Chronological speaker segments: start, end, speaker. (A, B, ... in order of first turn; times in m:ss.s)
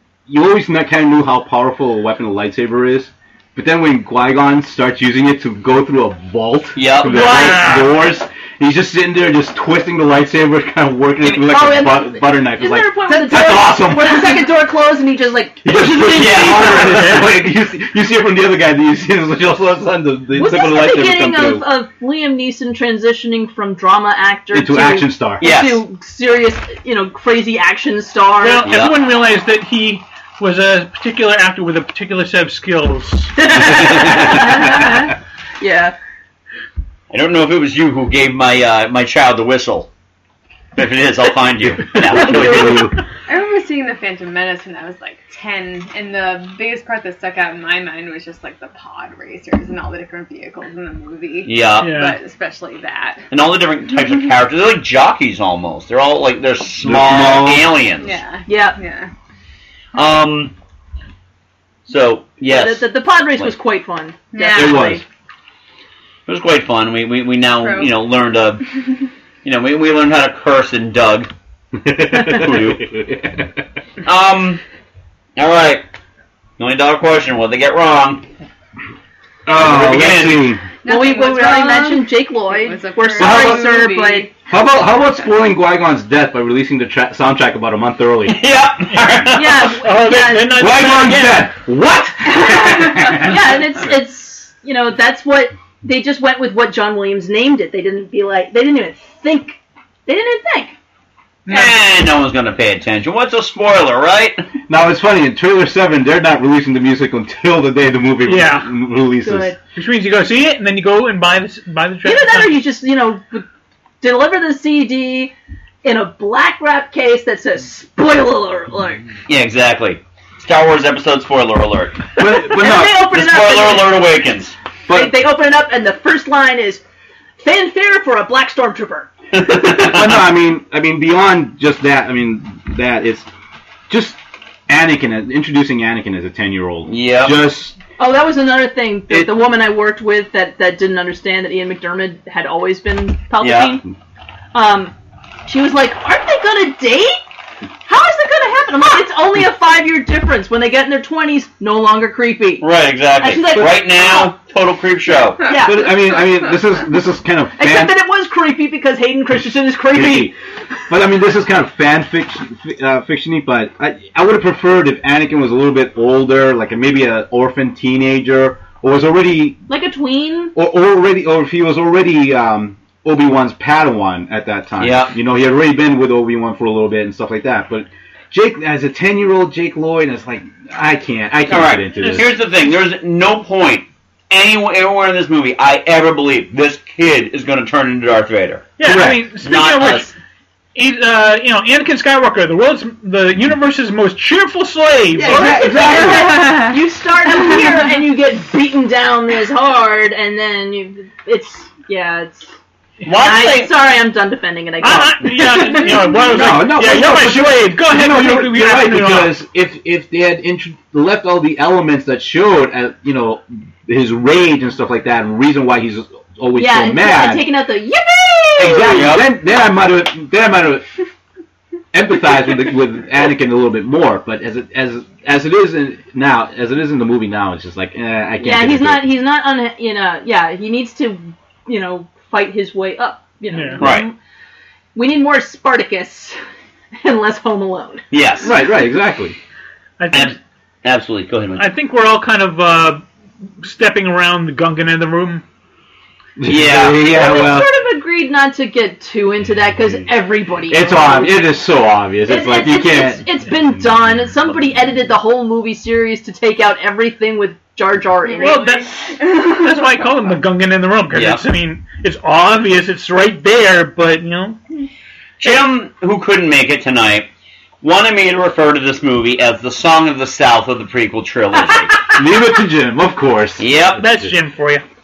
0:00.3-0:14.5 A
0:06.8-0:08.1 B
0:07.0-0:07.9 C
0:11.3-0:17.2 D
0:15.6-0:21.6 A
0:16.1-0:17.1 B
0:20.3-0:28.7 D
0:24.5-0:25.4 A
0:25.4-0:25.8 B
0:28.4-0:33.4 C
0:28.6-0:29.0 B
0:33.4-0:36.0 D
0:33.8-0:34.4 B
0:37.1-0:39.9 B
0:40.8-0:42.9 B
0:42.0-0:43.0 A
0:42.2-0:42.7 D
0:43.3-0:53.2 E
0:51.4-0:51.9 B
0:51.8-0:52.2 C
0:53.3-0:58.2 B
0:56.8-0:57.7 A
0:58.0-0:59.1 E
0:58.5-0:58.8 D
1:00.0-1:00.5 B
1:01.9-1:03.5 B
1:02.5-1:05.0 D
1:04.3-1:05.0 E
1:04.5-1:05.0 A
1:06.3-1:08.6 B
1:07.6-1:08.0 E
1:09.4-1:11.3 B
1:11.8-1:13.6 A
1:12.3-1:12.9 B
1:14.0-1:14.6 B
1:15.4-1:15.8 B
1:16.6-1:18.2 B
1:19.5-1:20.6 A
1:19.5-1:20.5 B
1:20.8-1:24.3 E
1:20.8-1:24.3 D
1:23.2-1:23.8 A
1:24.5-1:28.4 A
1:28.3-1:29.6 B
1:28.9-1:31.5 C
1:29.3-1:30.8 D
1:30.5-1:33.4 A
1:32.2-1:40.8 D
1:41.5-1:41.7 C
1:41.5-1:44.4 B
1:44.7-1:49.6 A
1:48.2-1:48.7 C
1:49.2-1:49.6 D
1:49.7-1:52.6 C
1:52.0-1:53.5 D
1:54.0-1:59.1 D
1:59.3-2:02.1 B
2:02.2-2:03.1 A
2:02.2-2:04.0 D
2:02.8-2:04.6 B
2:04.9-2:05.2 A
2:04.9-2:06.8 D
2:07.4-2:09.1 D
2:09.3-2:10.2 B
2:09.6-2:13.3 A
2:13.9-2:17.8 A
2:16.9-2:17.4 B
2:18.0-2:23.8 D
2:23.4-2:23.8 B
2:24.5-2:24.9 D
2:25.5-2:27.2 D
2:27.9-2:32.7 D
2:32.6-2:35.4 B
2:33.2-2:34.3 D
2:35.4-2:35.9 D
2:35.6-2:38.0 A
2:37.6-2:40.3 D
2:39.9-2:40.3 A
2:40.9-2:49.6 A
2:49.7-2:50.5 D
2:50.5-3:02.3 A
2:54.8-2:55.2 B
3:01.5-3:10.2 B
3:08.8-3:10.1 C
3:08.8-3:09.2 A
3:10.8-3:15.8 C
3:15.2-3:16.6 A
3:15.2-3:22.5 D
3:23.0-3:23.7 B
3:23.2-3:26.1 D
3:24.8-3:29.4 C
3:26.3-3:37.5 A
3:36.5-3:39.1 D
3:38.6-3:40.9 A
3:38.6-3:39.3 B
3:41.9-3:49.2 A
3:48.4-3:54.1 D
3:53.5-3:53.9 C
3:53.8-3:54.0 B
3:55.0-3:56.4 D
3:57.0-3:58.0 D
3:58.1-3:58.5 B
3:58.4-3:59.4 A
4:00.0-4:00.4 C
4:00.1-4:01.7 B
4:01.6-4:03.0 C
4:03.6-4:05.4 C
4:06.4-4:07.7 A
4:06.5-4:07.1 B
4:07.0-4:11.6 D
4:10.7-4:13.3 A
4:12.3-4:18.7 D
4:18.2-4:20.0 E
4:18.4-4:24.6 C
4:21.1-4:21.4 B
4:25.4-4:27.3 B
4:27.8-4:32.0 B
4:32.1-4:34.3 A
4:33.6-4:34.0 B
4:34.0-4:34.8 C